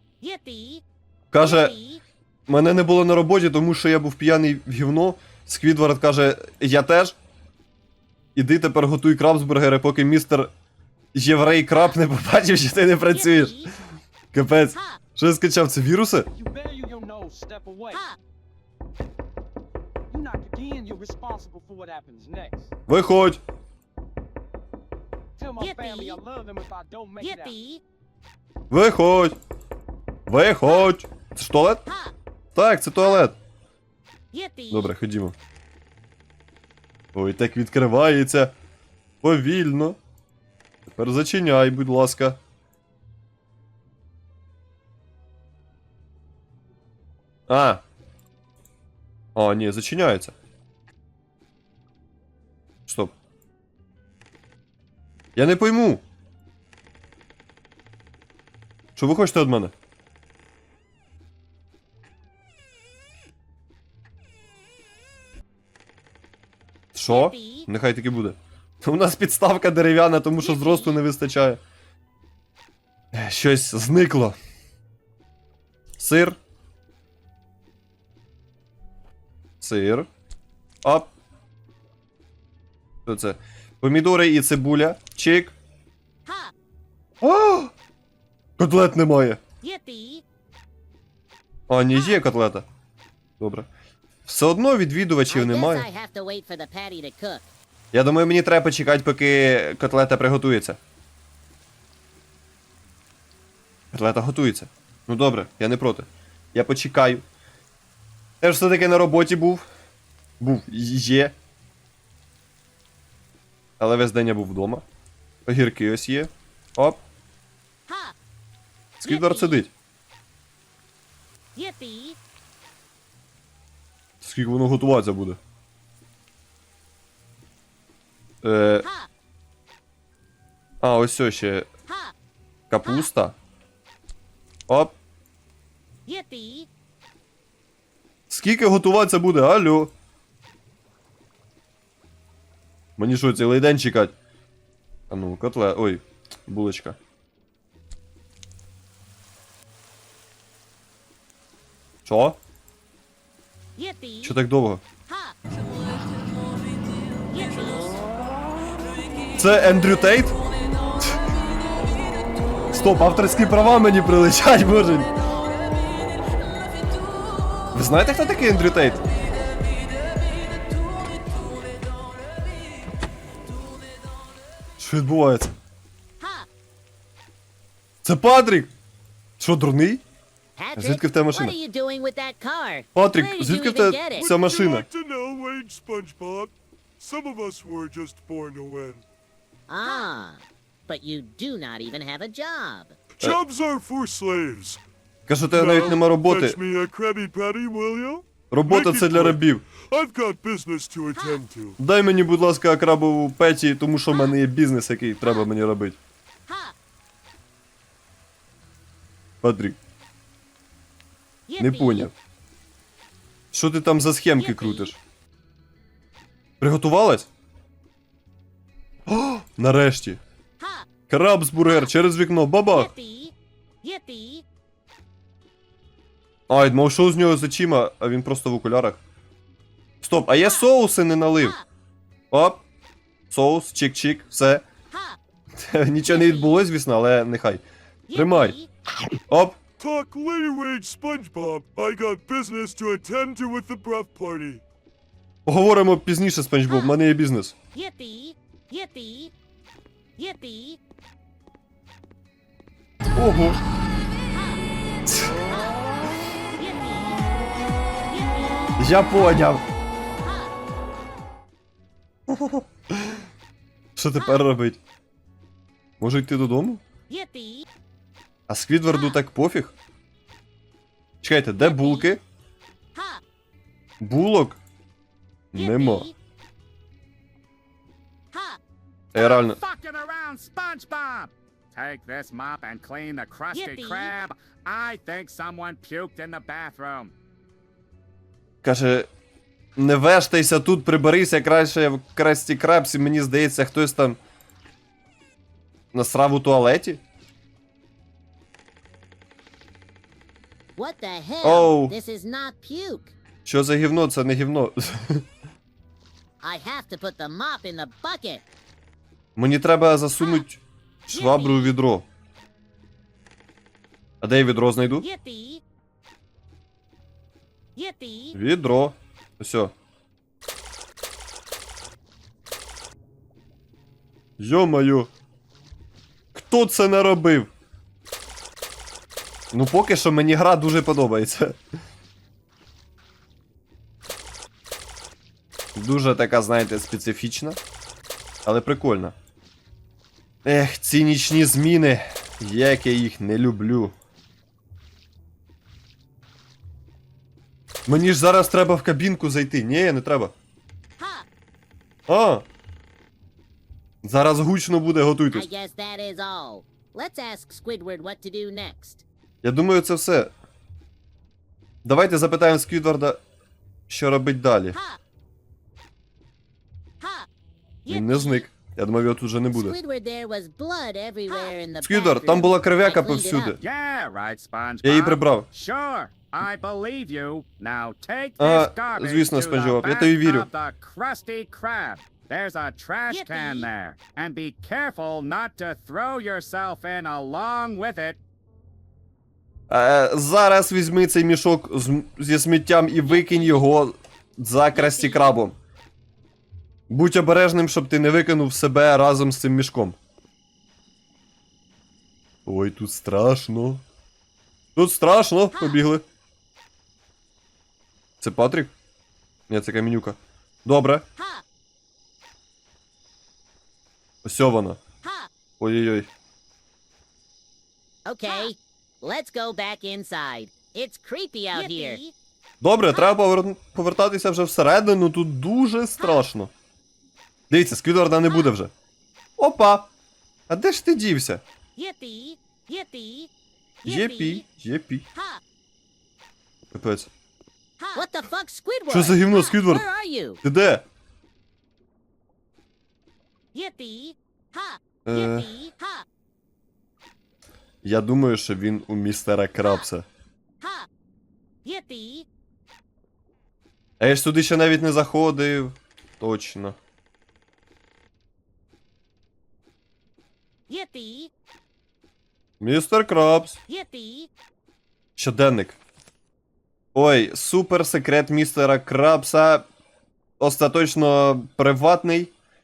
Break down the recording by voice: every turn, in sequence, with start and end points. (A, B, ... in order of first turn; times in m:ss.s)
0:01.3-0:01.8 A
0:02.5-0:07.2 A
0:08.4-0:10.5 A
0:11.1-0:13.7 A
0:14.3-0:16.3 A
0:16.4-0:18.1 B
0:20.1-0:22.7 B
0:22.9-0:23.4 A
0:25.4-0:27.6 B
0:28.7-0:29.4 A
0:30.3-0:31.9 A
0:32.5-0:33.4 A
0:34.7-0:35.4 A
0:37.1-0:38.5 A
0:39.2-0:40.0 A
0:40.9-0:42.4 A
0:47.5-0:47.8 A
0:49.4-0:50.4 A
0:52.9-0:53.1 A
0:55.4-0:56.0 A
0:59.0-0:59.7 A
1:06.9-1:11.6 A
1:13.1-1:14.4 A
1:16.0-1:16.4 A
1:19.6-1:20.1 A
1:20.8-1:21.1 A
1:23.1-1:25.5 A
1:27.2-1:27.7 A
1:28.6-1:29.4 A
1:31.7-1:32.6 A
1:33.4-1:33.7 A
1:34.3-1:35.9 A
1:35.3-1:37.4 C
1:37.9-1:40.8 A
1:43.9-1:47.2 A
1:48.4-1:49.6 A
1:50.4-1:51.3 A
1:53.8-1:54.8 A
1:55.5-1:57.0 A
1:59.0-1:59.7 A
2:04.2-2:05.4 A
2:08.4-2:08.9 A
2:10.8-2:11.7 A
2:12.7-2:13.3 A
2:14.7-2:15.0 A
2:18.3-2:19.9 A
2:23.0-2:24.1 A
2:25.1-2:27.0 A
2:32.0-2:32.4 A
2:34.2-2:34.8 A
2:39.4-2:40.4 A
2:42.7-2:45.1 A
2:47.7-2:49.0 A
2:54.8-2:55.5 A
2:58.0-2:58.7 A
2:59.4-3:00.0 A
3:00.6-3:04.3 C
3:00.8-3:01.6 A
3:03.0-3:04.9 A
3:04.1-3:09.0 D
3:09.7-3:13.0 C
3:13.2-3:14.8 D
3:15.3-3:16.6 A
3:15.5-3:21.8 D
3:18.5-3:19.6 A
3:21.8-3:26.0 A
3:29.4-3:29.8 A
3:31.6-3:32.1 A
3:33.5-3:35.0 A
3:36.6-3:37.3 A
3:39.1-3:40.2 A
3:41.1-3:43.0 A
3:46.5-3:49.0 A
3:50.0-3:51.6 A
3:52.3-3:52.6 A
3:53.3-3:54.6 A
3:55.6-3:57.6 A
3:58.1-3:58.6 A
3:59.3-3:59.6 A
3:59.8-4:04.6 D
4:05.5-4:07.6 A
4:13.2-4:13.6 A
4:15.1-4:15.4 A
4:18.8-4:19.6 A
4:22.3-4:23.2 A
4:24.0-4:24.8 A
4:26.0-4:26.8 A
4:28.5-4:29.7 A
4:31.2-4:32.2 A
4:34.0-4:34.6 A
4:35.5-4:36.1 A
4:39.1-4:39.6 A
4:39.2-4:47.1 E
4:48.6-4:49.1 A
4:49.8-4:54.2 A
4:55.9-4:57.0 A
5:00.8-5:03.1 C
5:01.4-5:01.9 A
5:03.4-5:05.2 A
5:06.4-5:08.4 C
5:09.4-5:12.0 A
5:14.2-5:15.1 A
5:18.3-5:19.7 A
5:24.4-5:25.1 A
5:26.3-5:27.5 A
5:29.5-5:31.6 A
5:35.8-5:37.6 A
5:38.4-5:39.2 A
5:40.4-5:43.9 A
5:47.9-5:50.3 A
5:52.1-5:52.4 A
5:54.0-5:55.5 A
5:55.3-5:59.0 C
5:59.4-6:00.3 A
6:01.8-6:03.2 A
6:03.9-6:04.8 A
6:07.9-6:09.8 A
6:09.5-6:13.6 C
6:11.8-6:13.6 A
6:13.6-6:28.2 E
6:14.8-6:15.5 A
6:18.4-6:20.5 A
6:29.7-6:35.6 A
6:36.9-6:40.0 A
6:42.5-6:43.8 A
6:44.8-6:46.0 A
6:48.2-6:48.7 A
6:49.5-6:51.0 A
6:54.2-6:54.8 A
6:55.6-6:56.1 A
6:58.1-7:02.1 C
7:02.6-7:06.5 A
7:07.5-7:08.7 A
7:09.4-7:09.9 A
7:10.5-7:11.4 A
7:13.8-7:15.1 A
7:16.7-7:17.1 A
7:17.9-7:20.4 C
7:18.9-7:19.9 A
7:20.4-7:20.8 A
7:25.1-7:25.7 A
7:27.8-7:30.0 A
7:34.0-7:36.8 A
7:42.6-7:43.6 A
7:45.2-7:45.8 A
7:46.9-7:49.6 A
7:50.4-7:52.3 A